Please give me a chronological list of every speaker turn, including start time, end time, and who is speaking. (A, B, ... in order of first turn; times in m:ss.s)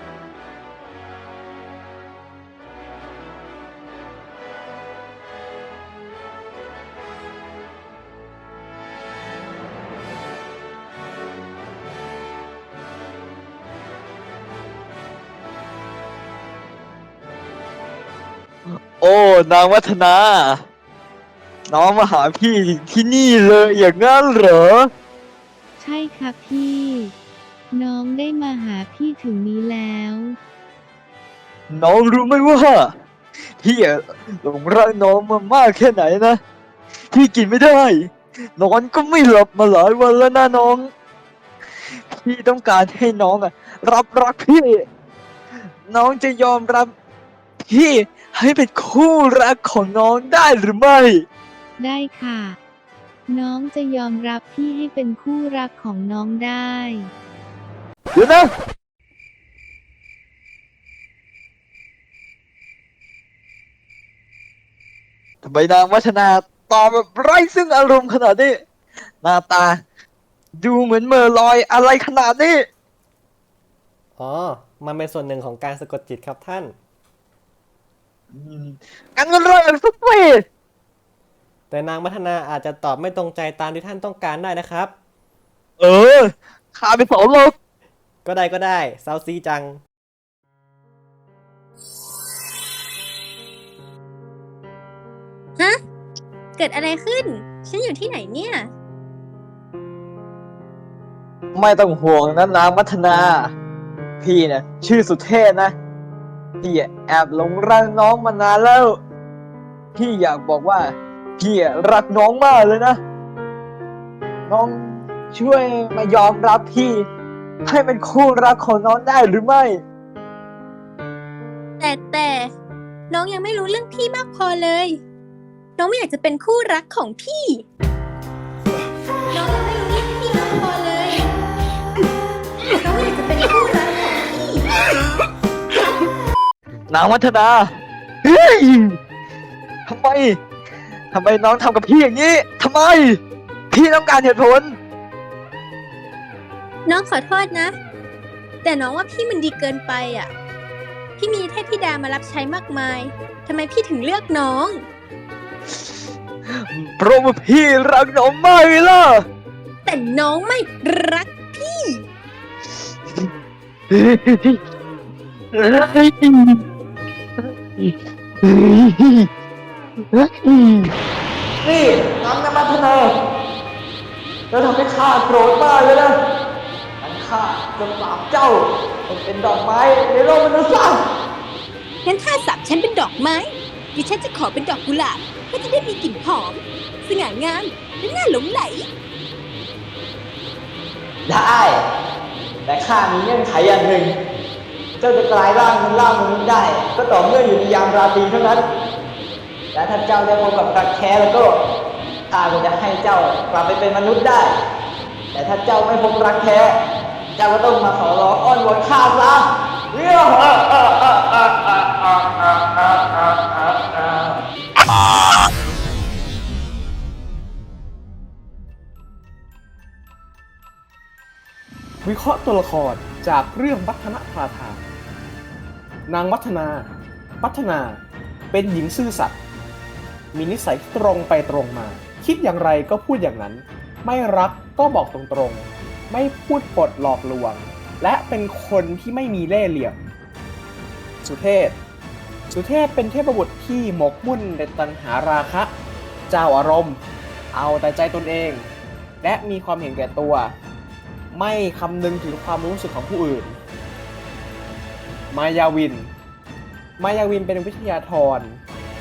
0:18.6-0:20.6 A
0:21.7-0:24.9 A
0:25.8-0:27.1 B
0:27.7-0:30.4 B
0:31.7-0:36.4 A
0:37.1-0:40.9 A
0:41.8-0:44.8 A
0:45.6-0:46.9 A
0:47.6-0:51.2 A
0:51.8-0:52.6 B
0:53.3-0:57.1 B
0:58.1-0:58.5 A
1:05.4-1:08.6 A
1:09.2-1:09.8 A
1:10.6-1:12.7 A
1:14.2-1:16.7 C
1:18.3-1:20.4 A
1:21.7-1:24.9 C
1:25.8-1:27.6 A
1:28.2-1:29.8 C
1:36.6-1:38.7 D
1:41.5-1:43.5 A
1:44.2-1:45.7 A
1:46.6-1:49.0 A
1:49.9-1:53.0 A
1:54.5-1:57.0 A
1:57.6-1:59.8 A
2:01.8-2:02.5 D
2:03.1-2:05.0 D
2:05.8-2:07.6 D
2:09.3-2:11.3 D
2:12.8-2:14.7 D
2:16.9-2:19.0 A
2:19.8-2:20.4 A
2:21.1-2:23.2 A
2:23.7-2:24.8 A
2:26.8-2:27.7 D
2:28.6-2:30.3 D
2:31.2-2:34.8 D
2:35.7-2:39.2 A
2:39.8-2:42.0 D
2:43.9-2:44.6 A
2:45.5-2:46.6 A
2:47.4-2:49.3 A
2:50.1-2:51.0 A
2:51.6-2:53.1 A
2:54.5-2:56.2 A
2:57.0-3:01.0 A
3:02.0-3:08.9 D
3:11.2-3:11.8 A
3:12.6-3:14.2 A
3:15.0-3:18.6 A
3:19.7-3:21.6 A
3:22.3-3:24.5 A
3:25.3-3:26.8 A
3:27.4-3:34.4 A
3:42.0-3:44.8 E
3:46.1-3:49.4 E
3:50.3-4:00.0 E
4:01.2-4:01.8 E
4:02.5-4:05.7 E
4:06.3-4:08.7 E
4:09.2-4:10.6 E
4:11.3-4:13.6 E
4:15.3-4:16.1 E
4:17.0-4:18.6 E